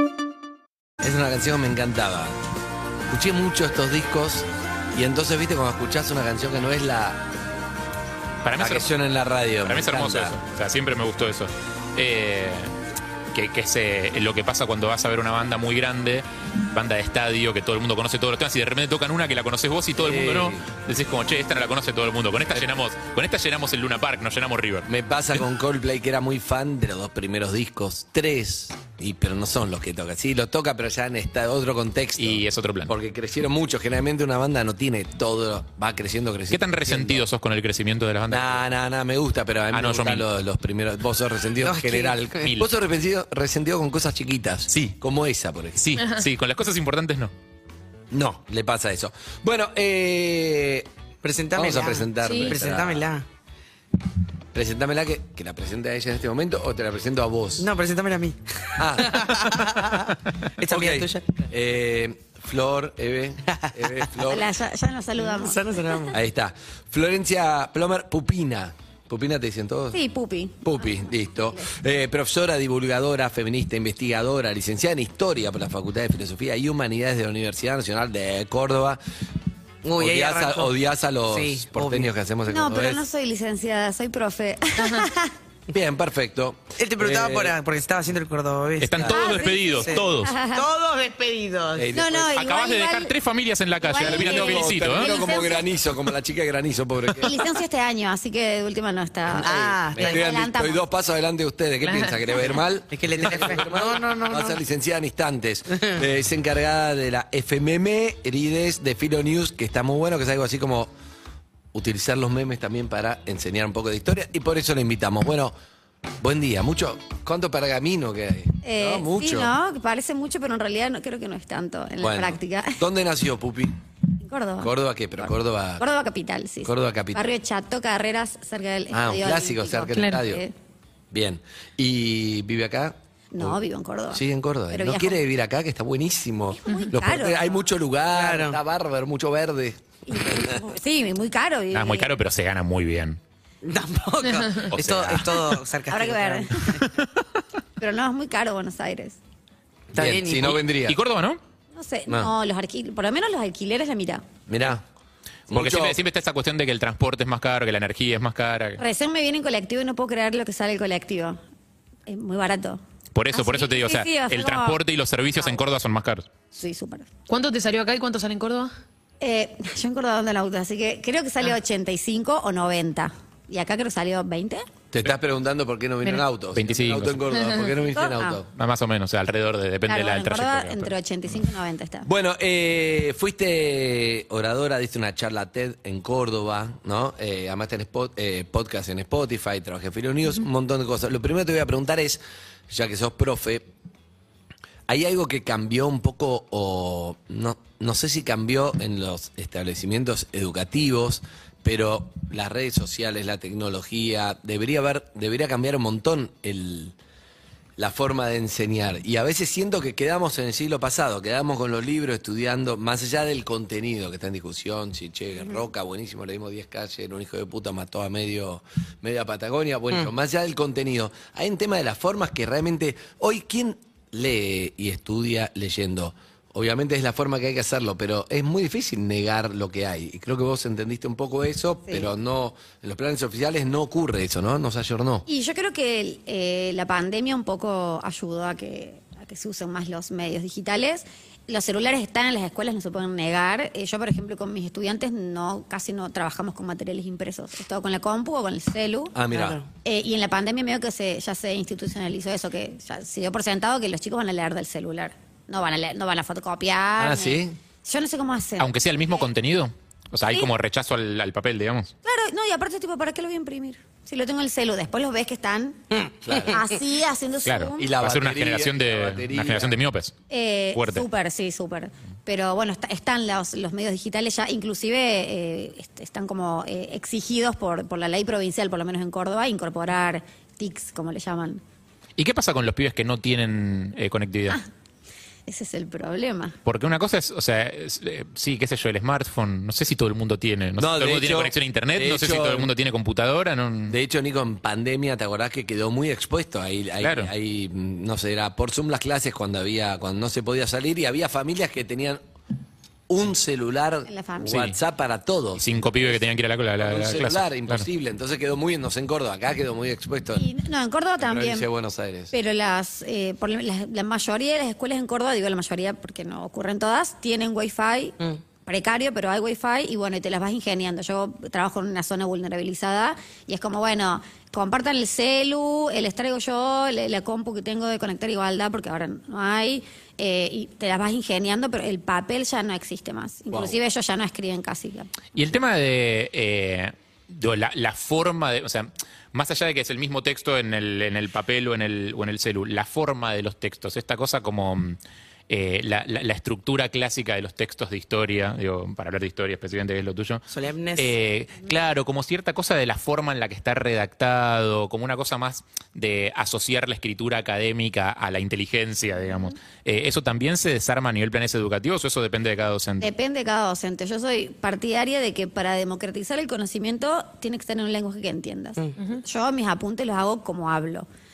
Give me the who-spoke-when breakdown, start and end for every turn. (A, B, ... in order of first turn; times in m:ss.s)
0:01.0-0:02.4 A
0:03.1-0:07.3 A
0:08.4-0:08.9 B
0:08.6-0:10.4 A
0:09.6-0:12.7 B
0:13.3-0:24.9 B
0:20.0-0:20.7 A
0:24.9-0:37.2 A
0:32.2-0:32.9 B
0:36.5-0:38.6 B
0:38.3-0:46.0 A
0:39.7-0:40.3 B
0:41.6-0:42.5 C
0:44.7-0:44.9 B
0:45.8-0:47.3 B
0:48.1-0:50.9 A
0:51.2-0:53.2 C
0:51.5-0:53.1 A
0:52.2-0:52.5 D
0:54.5-0:57.7 A
0:57.6-1:01.4 C
0:58.8-0:59.8 A
1:00.6-1:04.5 A
1:03.6-1:04.1 C
1:04.2-1:05.7 E
1:05.2-1:06.2 C
1:06.1-1:10.0 A
1:09.9-1:11.0 E
1:10.6-1:19.0 A
1:19.8-1:20.7 C
1:20.0-1:23.0 A
1:21.3-1:22.1 C
1:22.5-1:25.3 E
1:25.7-1:27.6 A
1:26.8-1:29.1 C
1:28.8-1:30.4 B
1:29.1-1:30.7 E
1:29.8-1:31.9 C
1:31.8-1:32.4 A
1:31.9-1:33.1 E
1:32.3-1:35.2 B
1:33.8-1:35.6 E
1:33.9-1:37.4 A
1:37.2-1:40.8 E
1:39.4-1:40.2 C
1:39.4-1:50.9 A
1:41.8-1:42.2 D
1:42.4-1:44.6 C
1:51.7-1:55.6 A
1:56.2-1:59.5 A
1:58.6-2:02.8 E
2:02.0-2:03.8 A
2:04.2-2:10.5 E
2:04.6-2:05.8 A
2:06.6-2:07.2 A
2:08.9-2:10.4 A
2:10.0-2:10.2 D
2:11.1-2:13.6 A
2:13.3-2:15.2 E
2:14.1-2:20.6 A
2:16.6-2:17.5 E
2:18.1-2:18.6 C
2:20.1-2:22.1 E
2:21.7-2:23.2 B
2:23.6-2:26.8 C
2:24.7-2:25.6 B
2:24.8-2:25.2 A
2:25.9-2:26.8 E
2:26.8-2:27.0 B
2:27.8-2:29.2 E
2:29.9-2:31.0 A
2:29.9-2:30.6 C
2:30.3-2:31.4 B
2:31.7-2:34.2 E
2:34.5-2:34.8 A
2:35.5-2:36.0 A
2:35.5-2:38.8 B
2:38.8-2:41.4 E
2:42.1-2:42.8 E
2:43.1-2:46.3 B
2:43.3-2:44.8 E
2:46.5-2:47.1 E
2:47.3-2:48.7 D
2:49.2-2:54.6 E
2:54.9-2:58.5 A
2:56.5-2:57.2 B
2:57.4-2:57.7 D
2:57.9-2:58.4 E
2:58.6-3:00.9 B
2:59.9-3:02.1 E
3:02.0-3:13.7 A
3:14.9-3:27.0 A
3:27.8-3:55.3 A
3:55.3-4:09.2 E
4:09.1-4:09.6 A
4:09.3-4:09.7 C
4:09.8-4:18.7 E
4:17.0-4:17.6 A
4:18.6-4:21.9 B
4:22.0-4:27.9 E
4:25.9-4:26.6 C
4:26.2-4:26.6 A
4:27.5-4:30.2 B
4:27.8-4:29.8 A
4:30.3-4:41.6 E
4:30.8-4:31.0 B
4:42.2-4:44.6 B
4:45.5-4:46.6 E
4:46.7-4:54.0 B
4:50.8-4:52.7 A
4:53.9-5:02.2 A
4:57.0-4:57.3 B
5:03.1-5:06.2 A
5:04.1-5:04.6 E
5:04.5-5:04.8 B
5:05.6-5:07.9 B
5:06.8-5:10.5 A
5:10.4-5:11.7 E
5:11.2-5:12.3 A
5:12.3-5:35.1 E
5:33.5-5:33.8 A
5:35.3-5:45.0 B
5:45.5-5:50.4 B
5:50.5-5:51.1 C
5:51.0-6:03.1 B
6:03.0-6:11.1 E